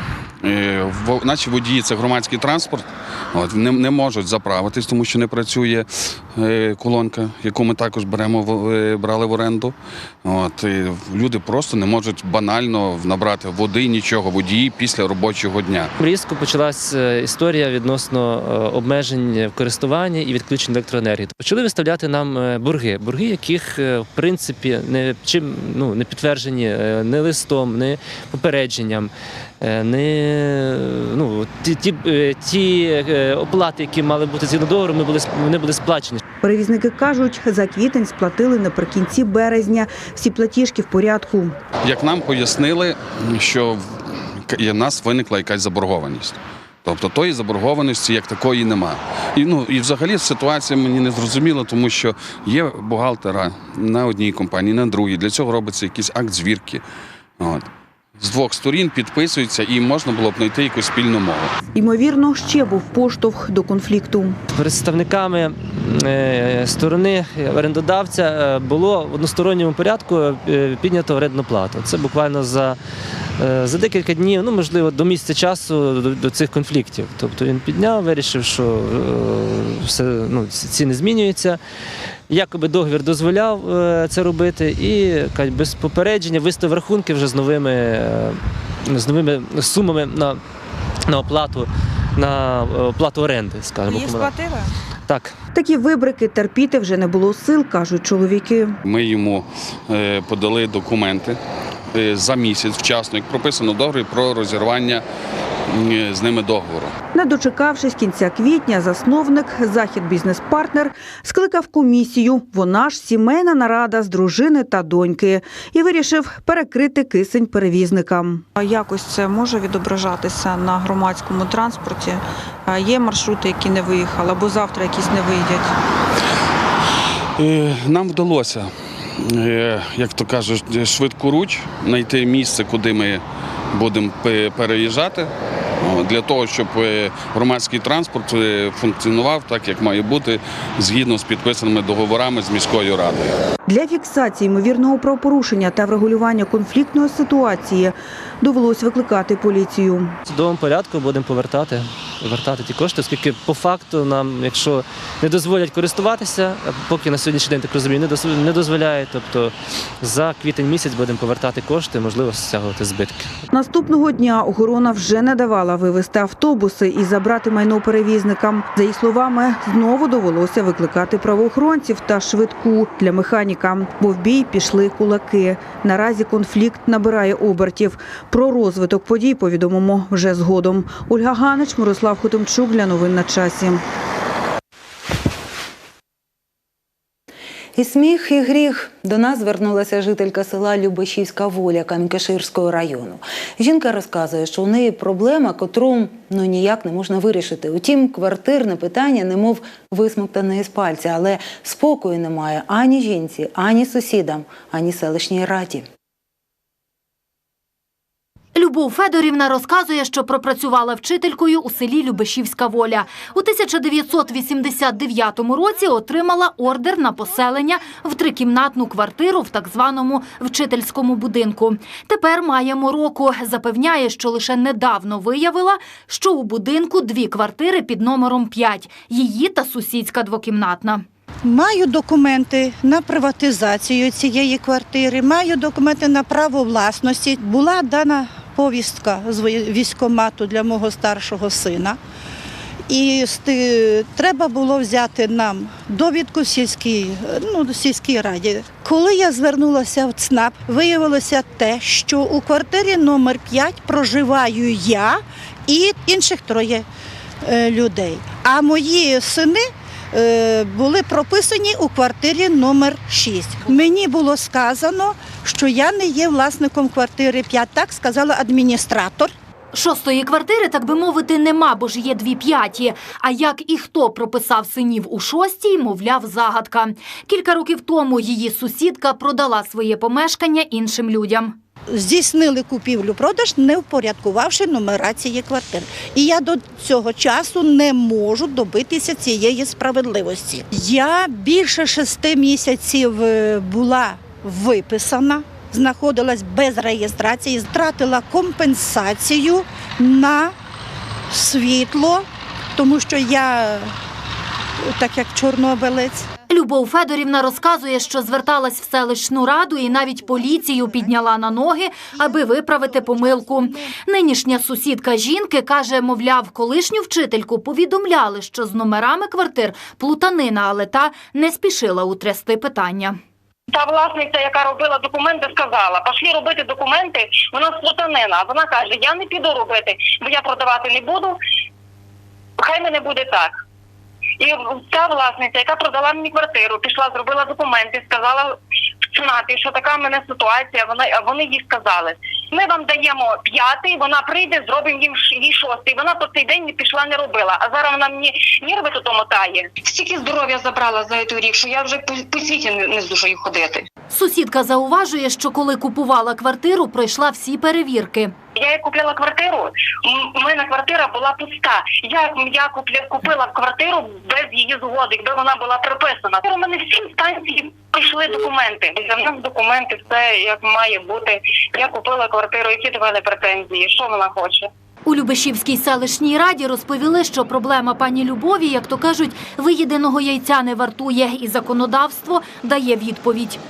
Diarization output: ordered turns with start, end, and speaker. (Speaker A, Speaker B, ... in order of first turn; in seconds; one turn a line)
Speaker A: 0.4-15.9
Speaker B: 16.0-36.2
Speaker C: 36.4-41.6
Speaker A: 41.8-56.8
Speaker A: 57.4-61.5
Speaker C: 61.7-64.4
Speaker B: 64.5-72.8
Speaker B: 73.4-81.6
Speaker B: 82.3-90.4
Speaker B: 91.1-94.3
Speaker C: 93.9-94.7
Speaker B: 95.1-95.3
Speaker C: 95.5-98.8
Speaker A: 98.8-101.4
Speaker A: 101.9-105.0
Speaker A: 105.7-106.9
Speaker C: 107.1-125.7
Speaker A: 127.4-143.4
Speaker C: 143.7-150.2
Speaker B: 150.2-163.3
Speaker C: 163.5-183.8
Speaker D: 187.8-205.9
Speaker E: 208.5-231.0
Speaker F: 231.4-242.0
Speaker F: 242.9-256.9
Speaker F: 257.4-269.3
Speaker E: 269.7-281.6
Speaker F: 281.9-300.5
Speaker F: 301.3-303.9
Speaker F: 304.8-306.3
Speaker E: 306.5-323.2
Speaker F: 312.1-313.9
Speaker G: 323.7-331.4
Speaker G: 332.6-333.5
Speaker G: 334.4-338.6
Speaker G: 339.1-353.8
Speaker E: 354.1-358.3
Speaker G: 358.6-374.7
Speaker E: 375.1-383.6